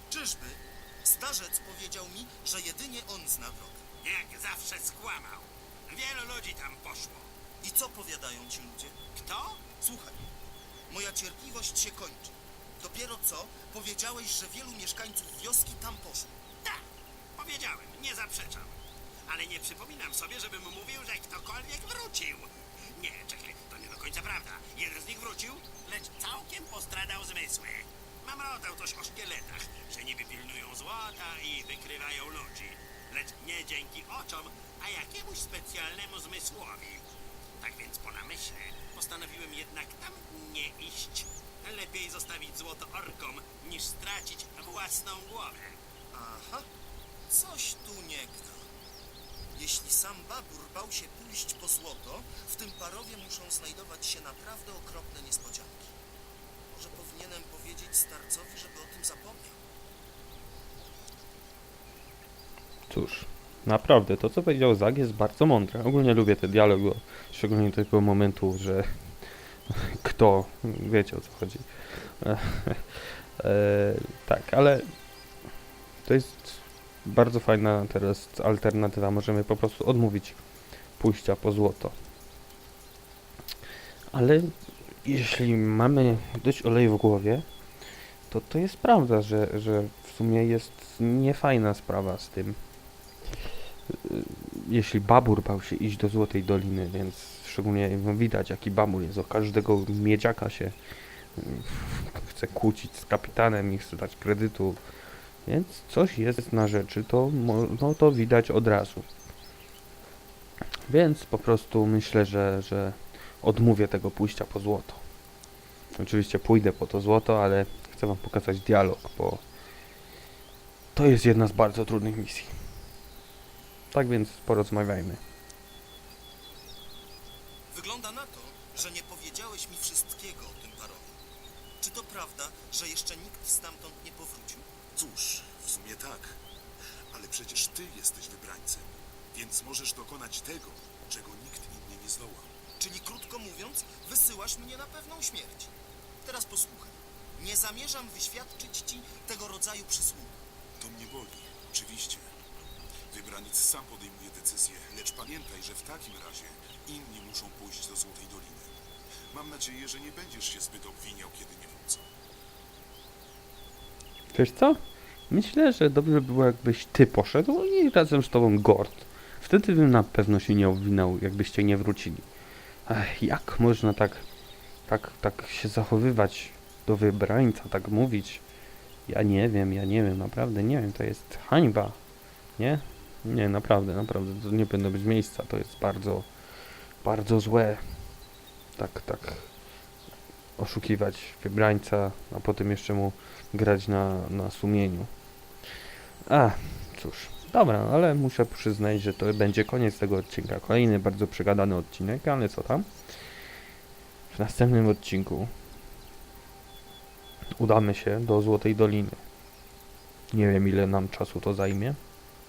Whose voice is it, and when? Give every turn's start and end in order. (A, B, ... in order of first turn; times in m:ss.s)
0:00.1-0:03.8 A
0:04.0-0:07.3 B
0:07.6-0:09.0 A
0:09.2-0:09.6 B
0:09.8-0:10.3 A
0:10.9-0:16.3 A
0:17.4-0:37.0 B
0:37.6-0:45.8 B
0:46.1-0:46.7 A
0:47.3-0:48.7 A
0:49.5-0:55.9 A
0:56.7-0:59.6 A
1:02.9-1:08.9 C
1:09.7-1:14.9 C
1:16.0-1:20.4 C
1:21.0-1:22.0 C
1:24.1-1:24.5 C
1:25.0-1:27.5 C
1:28.3-1:32.6 C
1:33.9-1:40.8 C
1:41.4-1:44.8 C
1:45.5-1:49.1 C
1:50.9-1:55.0 C
1:56.0-1:59.4 C
2:01.0-2:02.5 C
2:03.9-2:05.2 C
2:07.7-2:11.2 A
2:11.8-2:14.7 A
2:15.0-2:16.4 D
2:17.1-2:22.5 D
2:22.8-2:25.7 A
2:26.2-2:30.3 A
2:30.8-2:32.3 D
2:33.1-2:38.7 D
2:39.3-2:42.0 D
2:44.3-2:52.3 C
2:52.9-2:54.3 C
2:54.9-2:58.4 C
2:59.1-3:02.0 C
3:02.6-3:06.3 C
3:07.0-3:07.8 C
3:08.8-3:09.5 C
3:10.6-3:15.1 C
3:16.3-3:22.9 C
3:24.3-3:25.5 C
3:27.6-3:29.2 C
3:30.3-3:32.0 C